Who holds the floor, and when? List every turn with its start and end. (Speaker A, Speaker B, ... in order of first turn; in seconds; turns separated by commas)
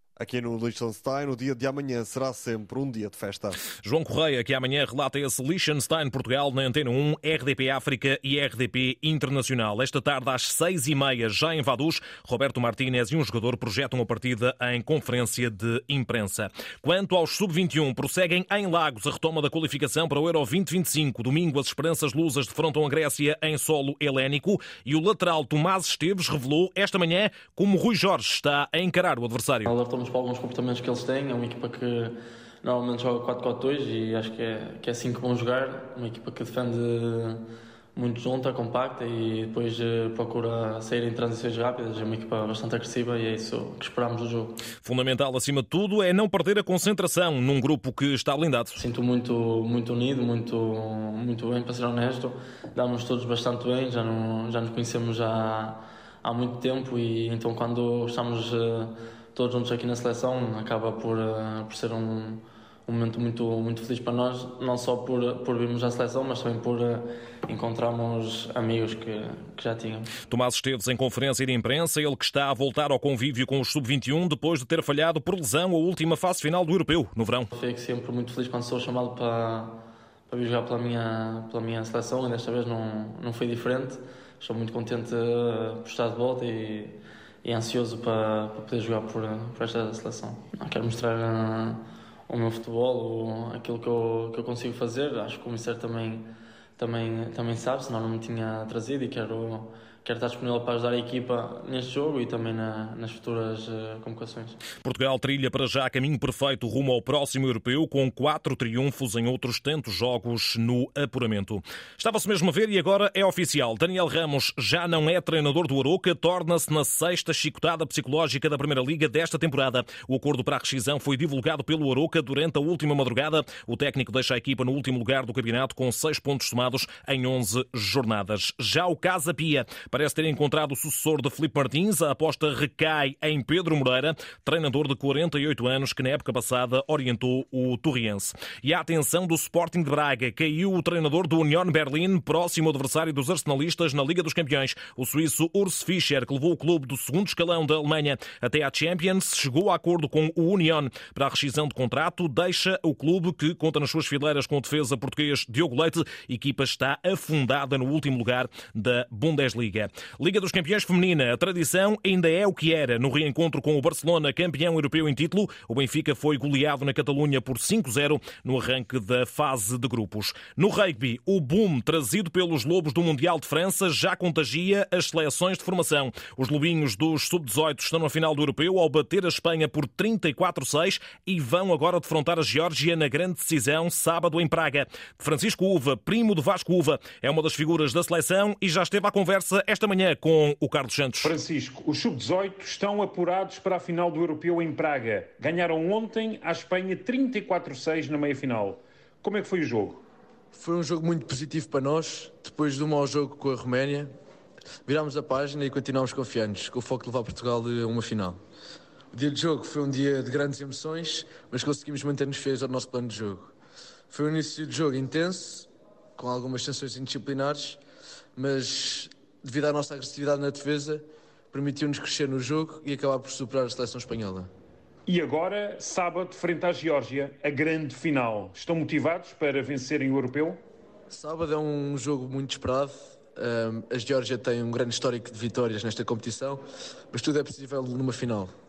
Speaker A: 0.2-3.6, Speaker B: 3.8-29.7, Speaker C: 29.6-44.6, Speaker B: 44.8-48.8, Speaker C: 48.8-70.1, Speaker B: 70.3-77.5, Speaker C: 77.5-104.6, Speaker B: 104.8-191.3, Speaker D: 191.2-200.0, Speaker E: 200.6-204.0, Speaker E: 204.9-208.3, Speaker E: 209.1-213.5, Speaker E: 214.1-215.7, Speaker E: 216.2-217.8, Speaker E: 218.6-219.1, Speaker E: 220.1-221.0, Speaker E: 221.5-224.4, Speaker D: 225.1-230.6, Speaker E: 231.1-236.6, Speaker E: 237.1-238.5